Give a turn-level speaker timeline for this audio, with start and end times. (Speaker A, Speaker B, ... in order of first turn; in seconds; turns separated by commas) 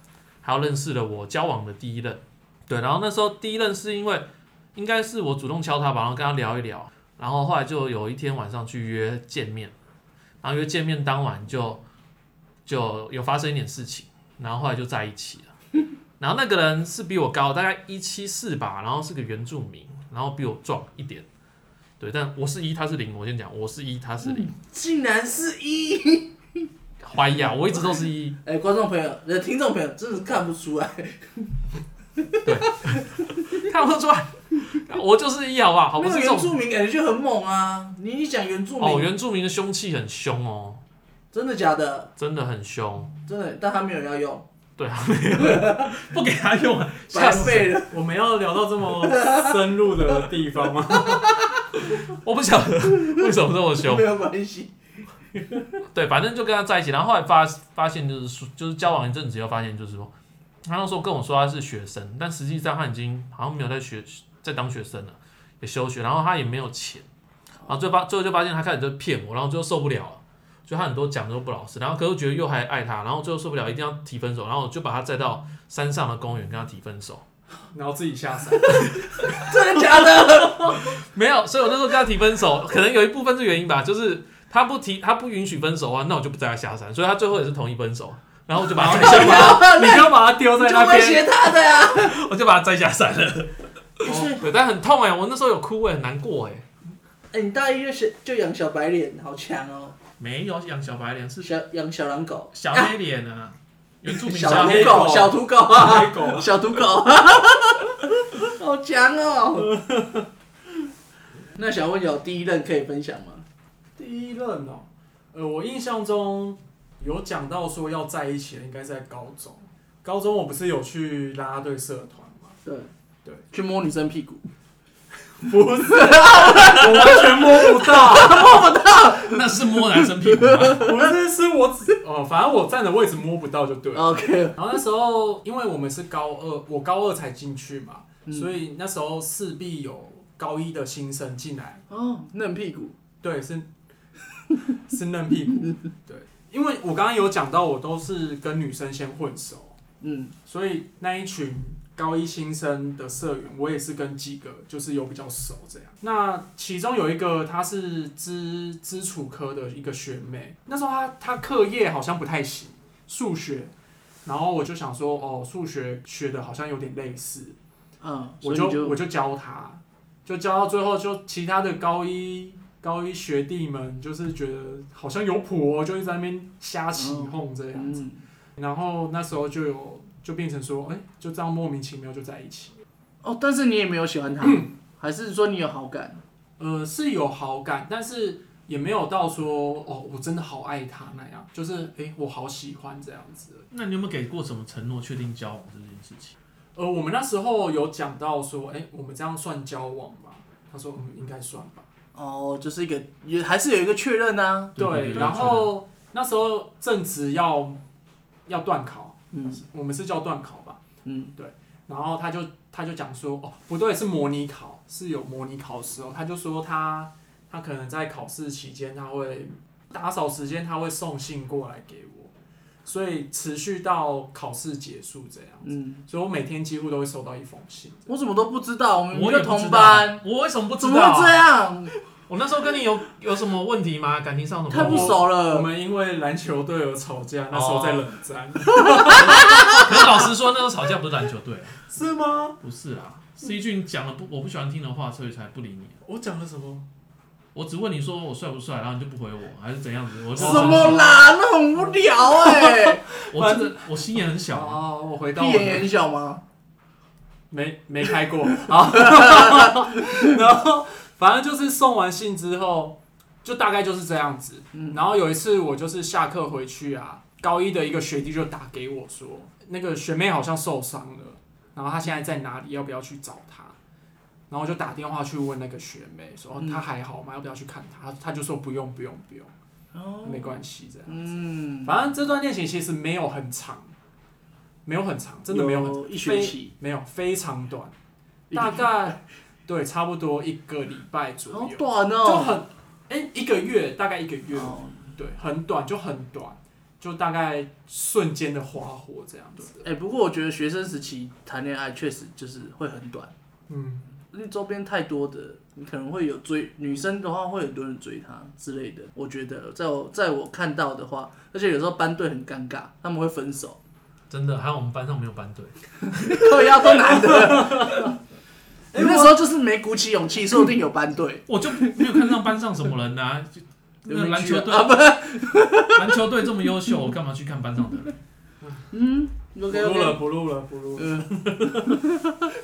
Speaker A: 0.4-9.7, Speaker A: 10.4-11.8, Speaker A: 12.7-15.5, Speaker A: 16.2-21.2, Speaker A: 22.0-24.5, Speaker B: 24.2-26.7, Speaker A: 27.0-28.4, Speaker B: 27.7-31.5, Speaker B: 32.1-33.4, Speaker A: 32.4-36.5, Speaker B: 36.0-39.1, Speaker A: 38.8-40.8, Speaker B: 41.3-42.1, Speaker A: 42.2-43.1, Speaker B: 43.3-44.5, Speaker A: 44.8-47.7, Speaker B: 45.4-46.0, Speaker B: 47.1-48.0, Speaker C: 47.3-51.3, Speaker B: 49.0-49.6, Speaker B: 51.0-51.8, Speaker A: 51.8-54.1, Speaker B: 52.9-54.7, Speaker A: 55.9-60.1, Speaker A: 60.6-67.1, Speaker A: 67.7-77.2, Speaker C: 77.7-79.1, Speaker B: 79.0-81.0, Speaker A: 80.8-89.6, Speaker B: 88.6-92.1, Speaker C: 88.8-91.3, Speaker A: 91.9-96.7, Speaker B: 94.0-94.5, Speaker B: 97.3-100.0, Speaker A: 100.2-101.5, Speaker B: 101.4-102.9, Speaker A: 102.5-105.3, Speaker B: 104.1-109.7, Speaker C: 104.4-106.6, Speaker C: 109.6-110.3, Speaker B: 111.5-113.5, Speaker C: 114.0-122.6, Speaker B: 122.6-122.9, Speaker B: 123.5-124.4, Speaker C: 125.3-128.7, Speaker B: 125.8-131.0, Speaker A: 128.9-130.9, Speaker C: 130.8-141.8, Speaker B: 133.9-134.6, Speaker B: 138.3-138.5, Speaker B: 141.9-143.0, Speaker C: 143.2-143.7, Speaker C: 144.8-149.8, Speaker B: 150.0-150.3, Speaker C: 150.5-163.7, Speaker C: 164.2-167.6, Speaker B: 168.0-169.0, Speaker C: 168.4-178.0, Speaker B: 177.0-178.2, Speaker C: 178.6-182.8, Speaker B: 183.2-186.2, Speaker C: 184.4-184.7, Speaker C: 186.6-193.7, Speaker A: 193.7-196.3, Speaker C: 196.8-201.9, Speaker B: 202.1-205.5, Speaker A: 204.8-205.7, Speaker C: 204.8-207.8, Speaker C: 208.5-210.8, Speaker B: 209.3-209.6, Speaker B: 211.1-211.3, Speaker C: 211.4-222.3, Speaker C: 222.8-228.1, Speaker B: 225.6-226.0, Speaker B: 228.1-230.2, Speaker A: 229.1-231.4, Speaker B: 230.8-231.9, Speaker A: 232.3-235.2, Speaker B: 234.7-235.7, Speaker C: 234.7-239.8, Speaker A: 237.5-238.1, Speaker B: 239.1-239.9, Speaker A: 239.2-241.8, Speaker C: 241.9-242.6, Speaker A: 242.6-246.0, Speaker C: 246.1-246.9, Speaker A: 247.6-251.1, Speaker B: 250.3-253.1, Speaker C: 250.4-251.2, Speaker C: 252.4-255.9, Speaker A: 253.3-254.8, Speaker B: 255.3-256.4, Speaker C: 257.5-273.8, Speaker B: 258.7-260.4, Speaker C: 274.5-279.5, Speaker B: 276.6-276.8, Speaker B: 279.9-282.0, Speaker C: 280.2-283.9, Speaker C: 284.9-287.9, Speaker B: 285.5-286.7, Speaker B: 288.5-288.9, Speaker C: 288.5-299.9, Speaker B: 291.5-292.6, Speaker B: 294.5-295.1, Speaker B: 299.8-303.3, Speaker C: 303.7-304.1, Speaker B: 304.3-313.8, Speaker A: 314.3-316.9, Speaker B: 316.1-318.1, Speaker C: 317.1-318.1, Speaker C: 318.9-319.4, Speaker B: 318.9-322.3, Speaker A: 321.5-325.0, Speaker B: 324.1-326.3, Speaker A: 325.9-328.1, Speaker C: 328.6-328.9, Speaker B: 328.9-330.2, Speaker C: 329.7-332.0, Speaker B: 331.0-332.5